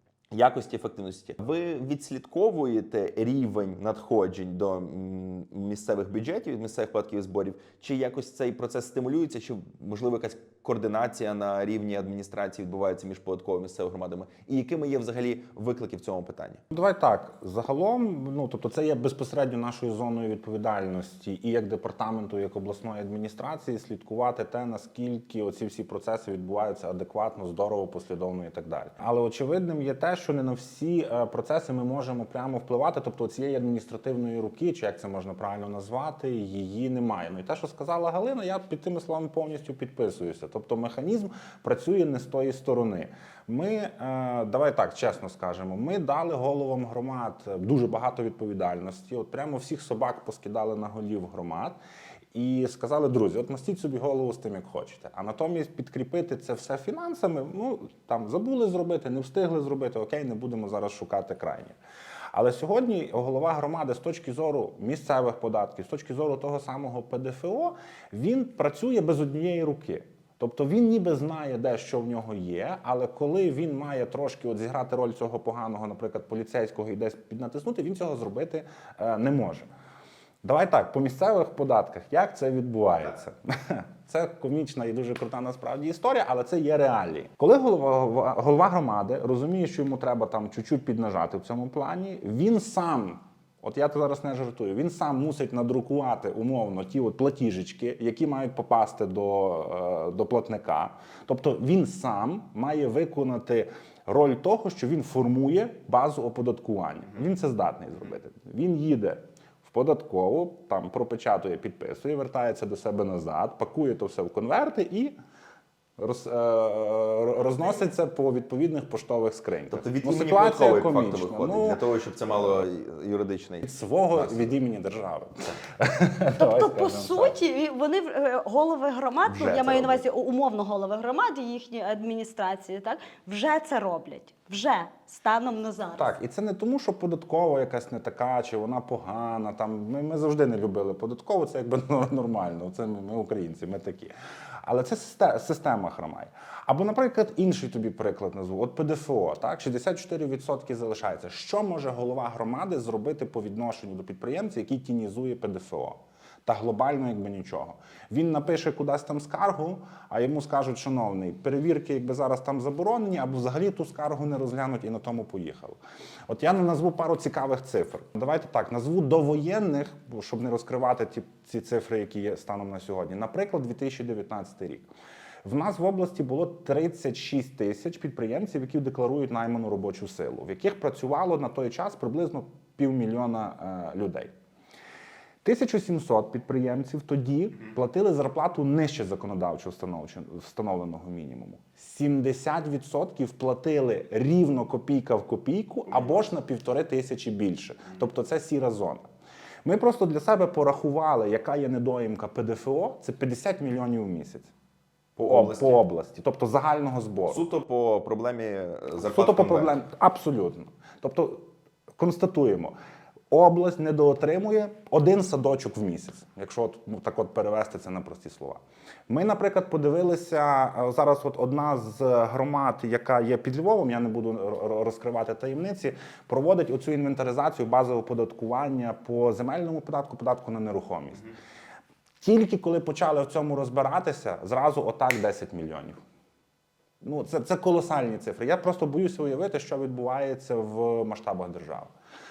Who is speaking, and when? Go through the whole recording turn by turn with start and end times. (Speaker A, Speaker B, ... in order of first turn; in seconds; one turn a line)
Speaker A: 0.3-16.6
Speaker B: 16.7-51.8
Speaker B: 52.3-61.8
Speaker B: 62.3-79.7
Speaker B: 80.4-115.2
Speaker B: 116.0-121.8
Speaker A: 119.7-124.5
Speaker B: 123.6-127.3
Speaker C: 126.4-136.1
Speaker A: 129.2-130.0
Speaker B: 135.9-144.1
Speaker B: 144.6-174.9
Speaker B: 175.4-184.3
Speaker B: 185.4-199.1
Speaker B: 199.6-204.5
Speaker A: 205.2-205.8
Speaker B: 205.2-207.4
Speaker A: 207.3-209.8
Speaker B: 209.0-212.7
Speaker B: 213.3-231.3
Speaker B: 232.2-236.0
Speaker B: 237.0-241.9